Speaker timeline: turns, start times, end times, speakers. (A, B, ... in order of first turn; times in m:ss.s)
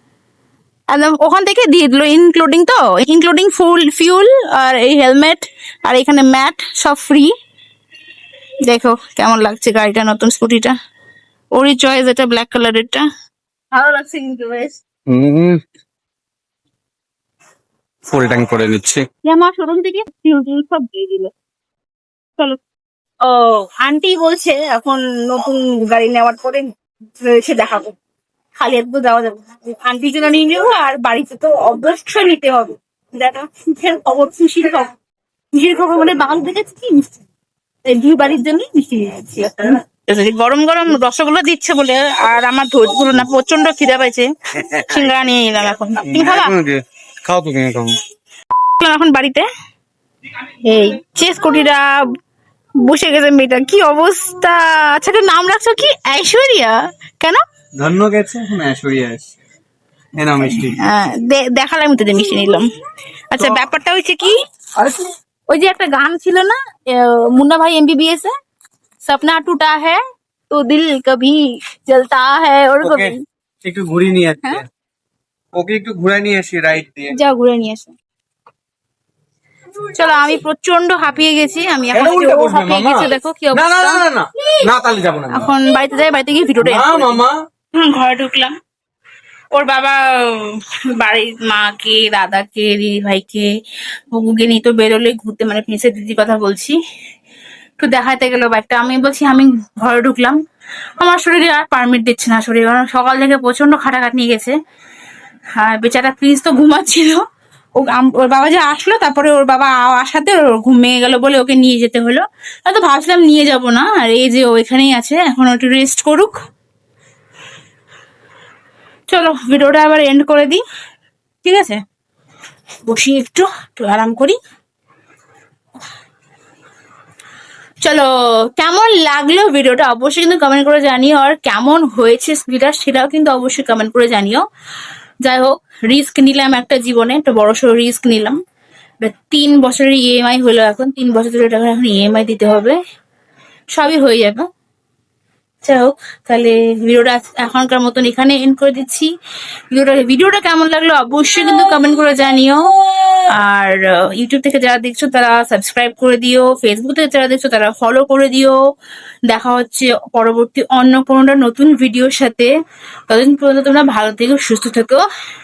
0:00.9-0:07.3 A
0:08.6-0:10.8 A
0:11.5-0:13.0 A
0:13.7-0:14.8 A
0:15.1-0:15.6 B
0:18.1-0:19.0 B
0:19.2-0:21.3 A
0:23.2-0:28.0 A
0:28.6-0:34.9 A
0:35.5-0:37.2 A
0:37.9-0:46.6 A
0:46.1-0:47.9 B
0:48.8-0:49.4 A
0:50.6-0:52.0 A
0:52.8-0:57.4 A
0:57.8-0:59.3 B
1:00.2-1:00.8 B
1:00.4-1:02.7 A
1:03.3-1:04.4 A
1:05.5-1:08.3 A
1:09.0-1:13.2 A
1:12.8-1:14.6 B
1:15.5-1:17.1 B
1:17.1-1:18.0 A
1:19.9-1:24.0 A
1:21.9-1:25.5 B
1:25.3-1:27.2 A
1:26.6-1:27.3 B
1:27.8-1:28.6 A
1:29.5-1:33.5 A
1:34.1-1:36.8 A
1:37.8-1:40.4 A
1:41.0-1:44.6 A
1:45.6-1:47.2 A
1:47.8-1:56.3 A
1:59.1-2:00.6 A
2:01.4-2:01.8 A
2:02.8-2:04.4 A
2:07.8-2:14.4 A
2:15.2-2:18.4 A
2:19.0-2:22.8 A
2:23.7-2:24.5 A
2:25.6-2:29.1 A
2:29.7-2:38.6 A
2:39.3-2:42.5 A
2:43.1-2:45.0 A